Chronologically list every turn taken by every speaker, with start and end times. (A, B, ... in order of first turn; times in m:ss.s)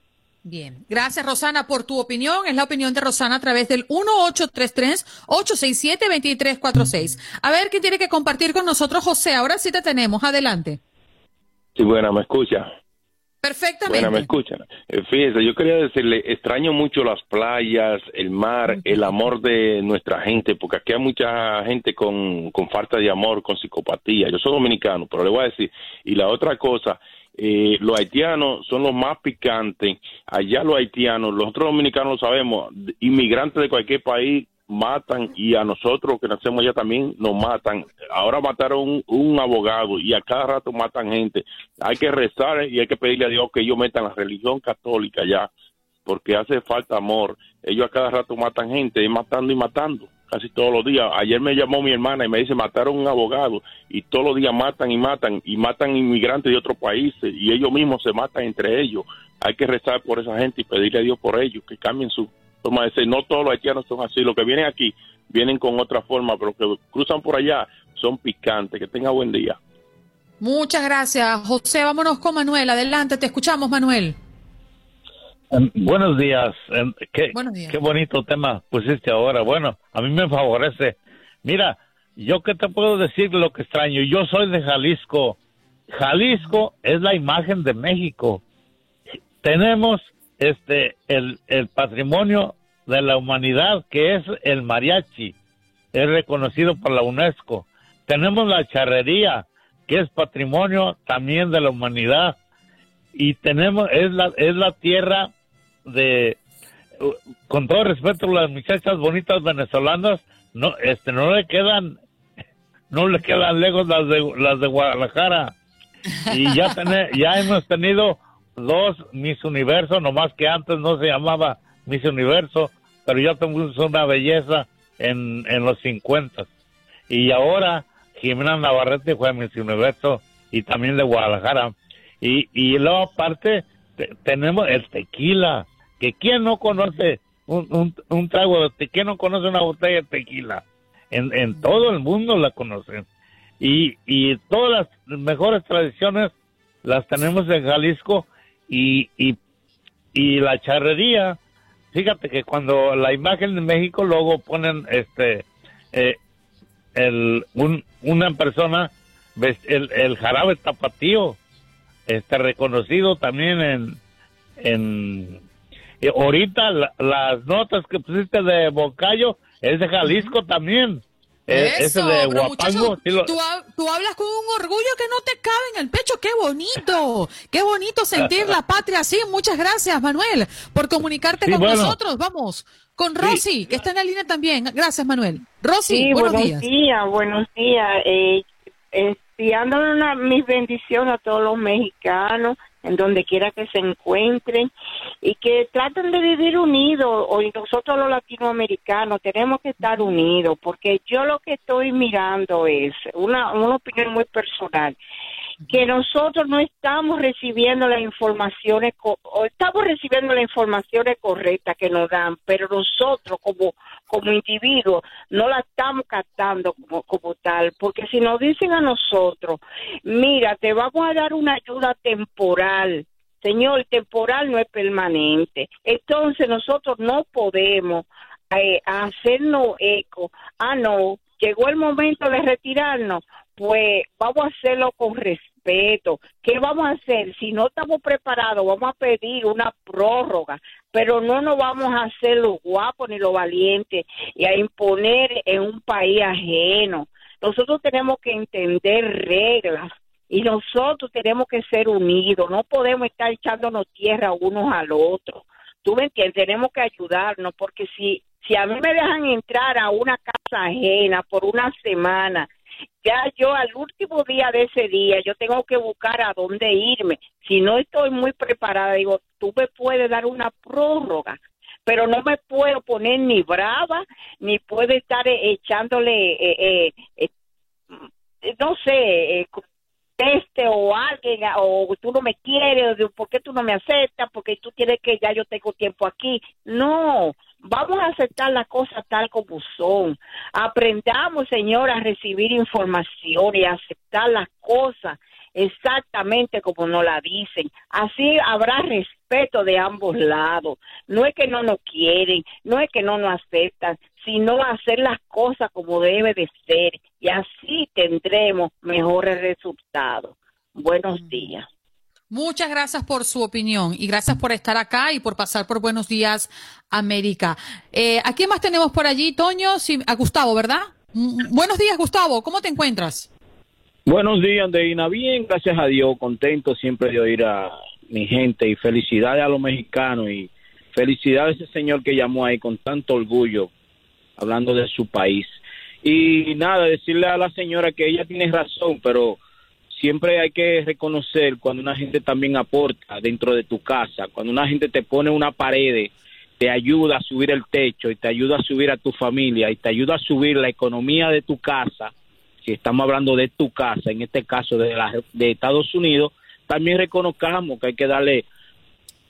0:00.4-0:10.8 A
0:11.8-0:12.6 B
0:13.4-0:14.3 A
0:13.9-0:45.5 B
0:46.0-1:09.6 B
1:10.4-1:14.2 A
1:15.5-1:25.4 C
1:17.3-1:17.7 A
1:25.9-1:28.4 C
1:29.4-1:35.3 C
1:35.9-1:42.4 C
1:43.1-1:45.3 C
1:45.8-1:46.4 C
1:47.0-1:52.0 C
1:52.9-1:55.5 C
1:56.3-2:06.5 C
2:07.1-2:23.0 C
2:23.6-2:26.3 C
2:26.8-2:29.4 C
2:30.1-2:31.4 C
2:31.9-2:36.2 C
2:36.9-2:41.4 C
2:42.1-2:44.0 C
2:44.6-2:45.4 C
2:46.0-2:53.3 C
2:50.0-2:50.3 A
2:51.5-3:06.6 A
3:01.4-3:02.0 C
3:03.2-3:03.4 C
3:05.9-3:14.7 D
3:15.2-3:25.0 D
3:25.7-4:22.5 D
4:23.0-4:37.3 D
4:37.9-4:39.6 D
4:40.2-5:11.6 D
5:12.3-5:23.3 A
5:24.0-5:33.7 E
5:34.4-5:35.5 E
5:36.0-5:39.4 E
5:39.9-5:52.1 E
5:52.6-5:58.4 E